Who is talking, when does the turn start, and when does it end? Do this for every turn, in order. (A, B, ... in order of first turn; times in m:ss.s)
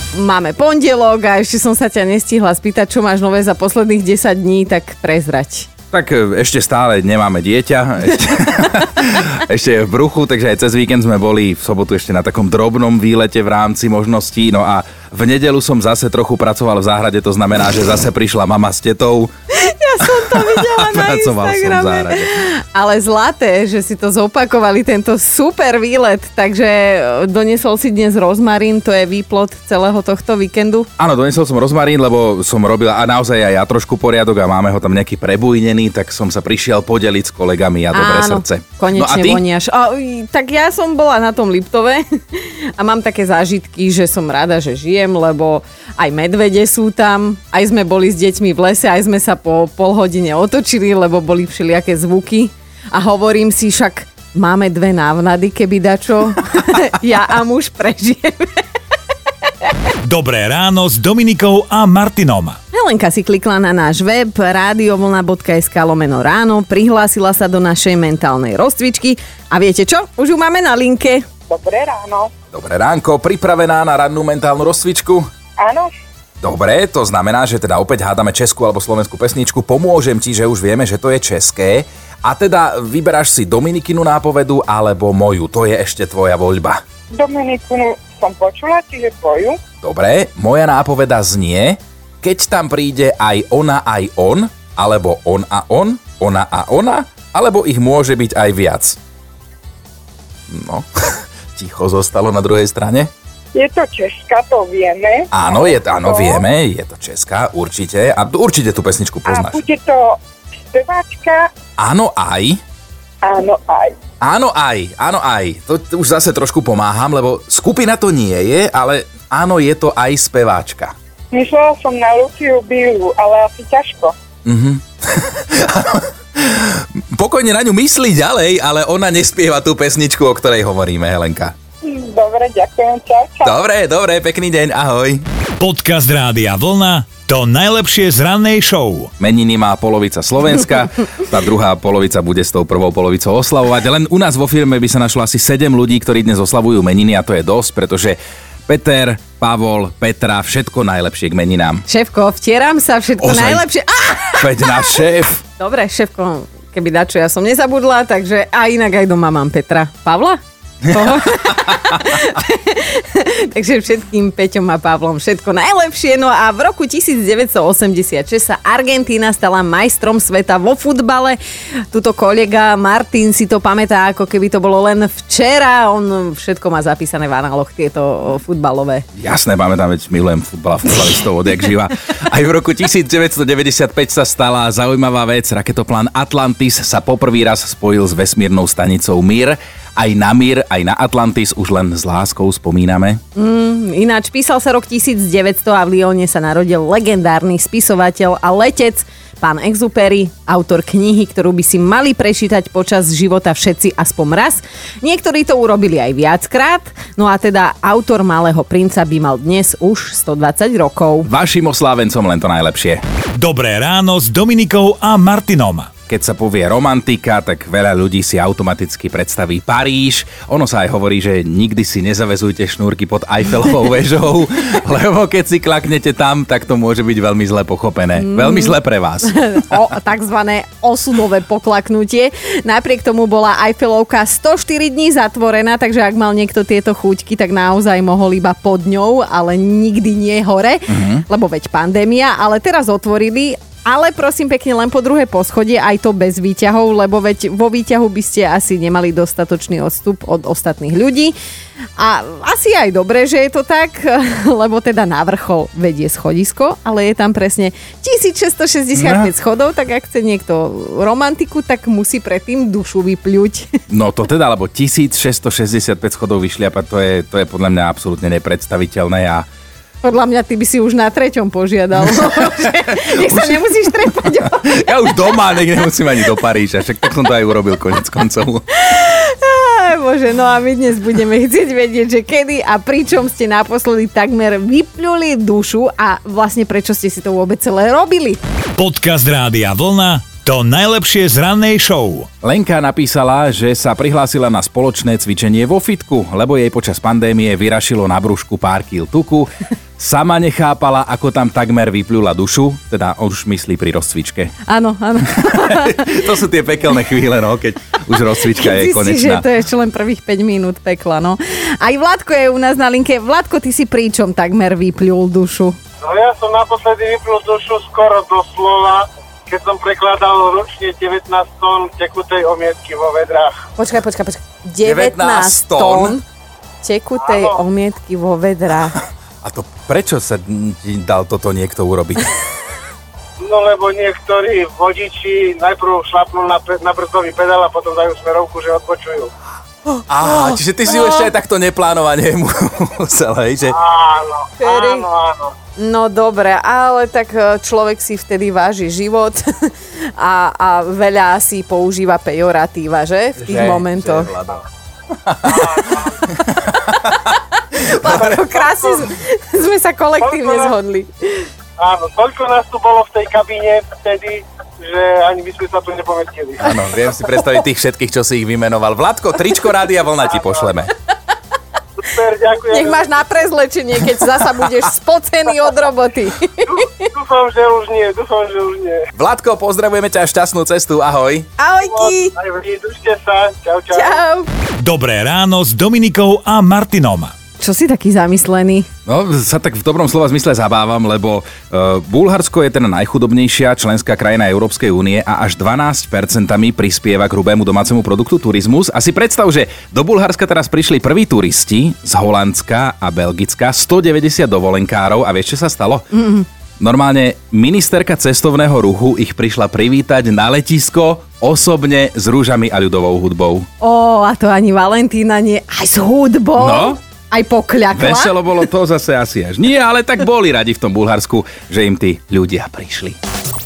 0:00.1-0:05.7 A
0:05.9-0:19.3 B
0:19.5-0:30.9 A
0:20.0-0:22.3 B
0:31.0-0:39.4 B
0:37.9-0:58.6 A
1:00.0-1:02.6 C
1:02.7-1:11.2 A
1:11.5-1:12.3 D
1:12.5-1:15.2 B
1:15.6-1:15.9 D
1:16.4-1:26.8 B
1:27.1-1:29.6 D
1:29.8-1:39.0 B
1:40.5-1:43.1 B
1:43.5-1:46.4 D
1:45.3-1:49.6 B
1:49.2-1:50.2 D
1:50.7-1:51.4 D
1:51.8-1:52.6 B
1:53.2-1:53.9 D
1:54.2-2:00.9 B
2:01.3-2:04.1 D
2:04.4-2:11.5 B
2:11.8-2:13.6 D
2:13.4-2:15.2 B
2:15.6-2:19.1 C
2:19.2-2:31.8 B
2:31.9-2:35.0 A
2:33.2-2:33.6 B
2:34.4-2:35.4 B
2:35.6-2:51.4 A
2:51.9-2:59.0 A
2:59.2-3:13.2 B
3:13.4-3:31.3 A
3:31.2-3:33.0 B
3:33.3-3:35.9 C
3:36.1-3:49.7 B
3:48.2-4:11.3 A
4:00.9-4:01.2 B
4:12.0-4:23.7 A
4:18.9-4:19.3 B
4:23.9-4:29.4 B
4:30.0-4:35.2 A
4:33.1-4:38.6 B
4:38.7-4:48.4 A
4:48.8-4:52.3 C
4:52.4-5:04.5 B
5:04.7-5:06.2 A
5:05.3-5:09.4 B
5:08.4-5:15.8 A
5:16.0-5:23.6 E
5:23.8-5:26.2 A
5:24.8-5:26.2 B
5:26.8-5:29.0 A
5:27.2-5:27.6 E
5:29.4-5:32.2 B
5:33.4-5:39.3 E
5:40.1-5:43.8 B
5:43.7-5:45.5 E
5:44.6-5:45.1 A
5:45.8-5:54.3 A
5:53.4-5:54.6 B
5:55.2-5:57.1 B
5:55.6-5:56.1 E
5:57.7-6:01.4 A
5:58.1-5:59.0 E
6:00.2-6:00.7 E
6:01.8-6:06.7 E
6:06.6-6:10.9 B
6:12.0-6:13.1 E
6:12.7-6:17.0 A
6:16.7-6:19.1 E
6:19.2-6:21.5 B
6:21.6-6:22.3 A
6:21.9-6:24.2 E
6:23.9-6:24.5 A
6:24.8-6:27.3 C
6:27.6-6:28.8 A
6:29.0-6:46.1 B
6:46.1-6:46.4 A
6:46.8-6:53.6 B
6:53.8-6:58.4 A
6:56.6-6:57.0 B
6:57.9-7:03.2 B